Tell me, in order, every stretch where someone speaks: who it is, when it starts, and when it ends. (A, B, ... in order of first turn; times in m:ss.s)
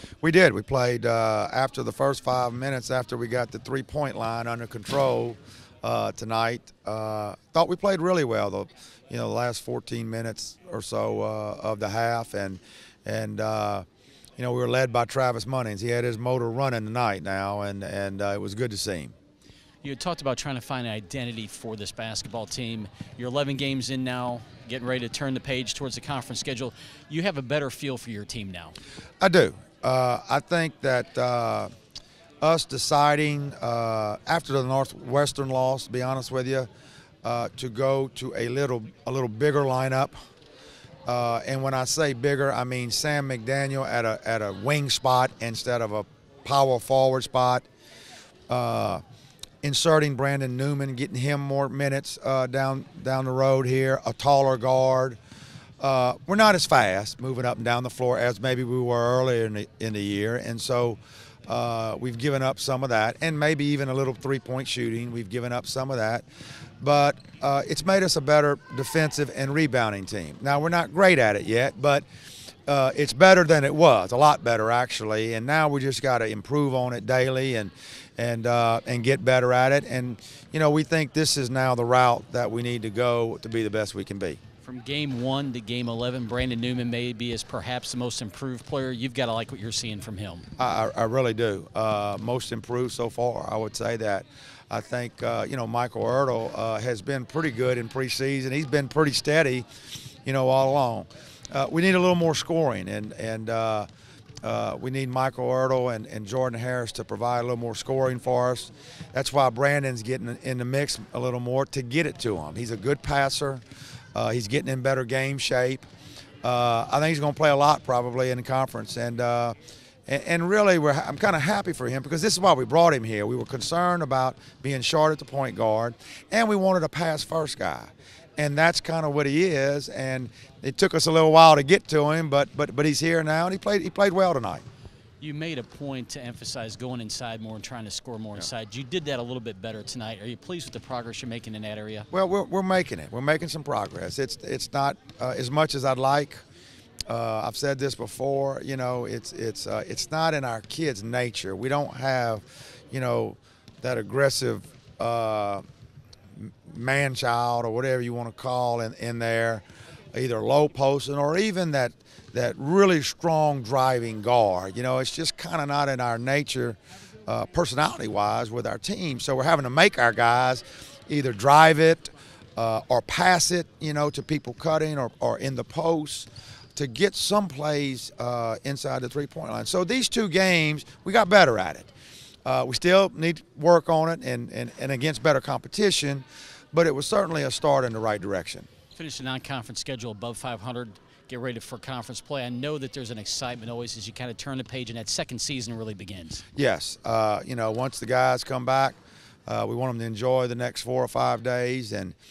0:00.2-0:13.8 A
0:14.4-0:19.1 A
0:19.8-0:28.8 B
0:29.2-0:31.7 A
0:32.4-0:36.7 A
0:37.2-0:40.2 A
0:41.1-0:47.6 A
0:48.5-0:49.0 A
0:49.6-0:55.2 A
0:55.8-1:06.2 A
1:06.8-1:12.0 A
1:12.7-1:24.4 A
1:24.6-1:30.5 B
1:30.6-1:39.7 A
1:40.3-1:43.9 A
1:44.4-1:53.6 A
1:54.2-1:55.8 A
1:56.4-1:59.6 A
2:00.1-2:14.6 A
2:15.2-2:22.1 B
2:22.1-2:26.4 A
2:27.1-2:35.6 A
2:36.4-3:01.9 A
3:02.4-3:08.7 A
3:09.0-3:16.4 B
3:16.6-3:22.2 A